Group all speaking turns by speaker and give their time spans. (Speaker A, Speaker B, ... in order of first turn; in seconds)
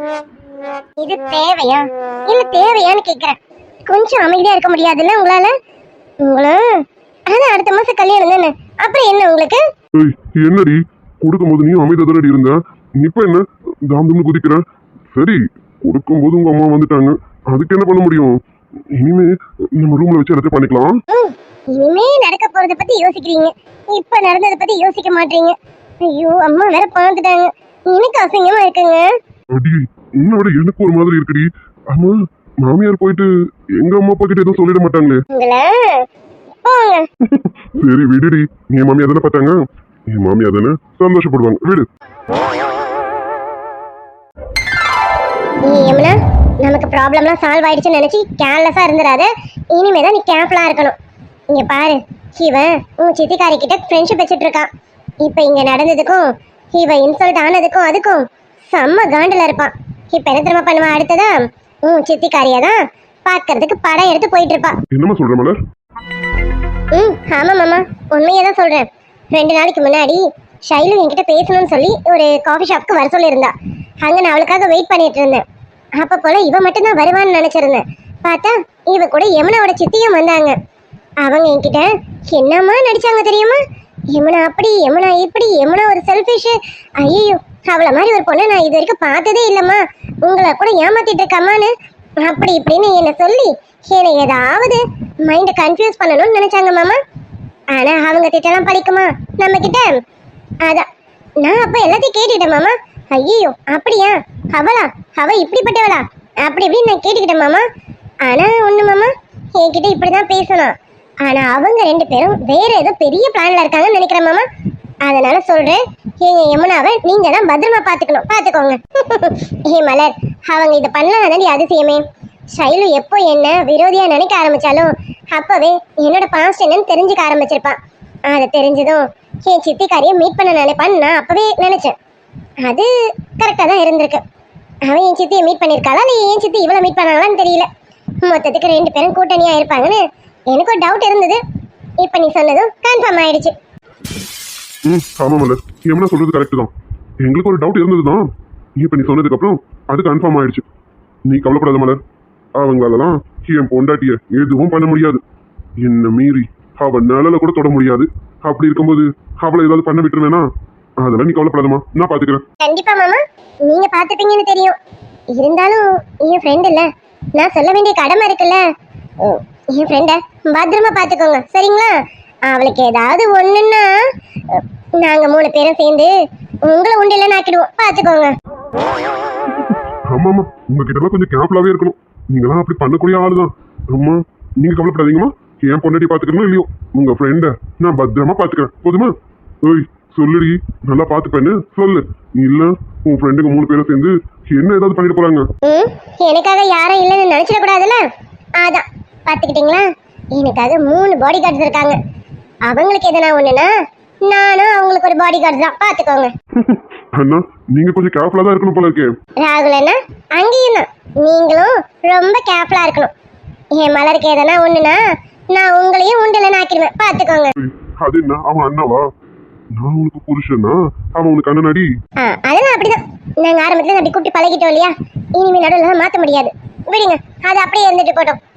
Speaker A: 1.0-3.4, 3.9-5.5, 6.2-6.7, 7.3-9.6, 21.1-29.1, 35.3-36.0, 36.6-37.1, 45.6-50.9, 51.5-54.7, 55.2-64.7, 66.9-75.4, 76.0-80.5, 81.2-83.6, 84.1-97.0, 97.7-100.0, 101.4-107.6, 108.2-114.4, 115.0-122.0, 122.5-127.8, 128.3-131.9, 132.6-134.2, 134.9-137.7, 138.2-141.4, 142.0-143.5, 162.6-164.8, 165.3-168.6, 169.2-171.9, 172.5-176.1, 176.6-178.3, 195.6-198.0, 198.6-202.0, 202.7-203.7, 204.2-206.3, 209.4-213.1, 213.8-215.0, 215.5-217.5, 222.2-228.4
Speaker B: 9.9-14.6, 15.1-18.4, 18.9-20.9, 29.5-35.2, 37.3-39.6, 40.1-41.9, 64.9-65.6, 144.9-148.2, 148.8-150.7, 151.3-152.0, 152.6-155.2, 155.8-160.4, 161.0-162.4, 179.6-195.4, 206.6-209.1, 217.6-219.1, 219.8-221.9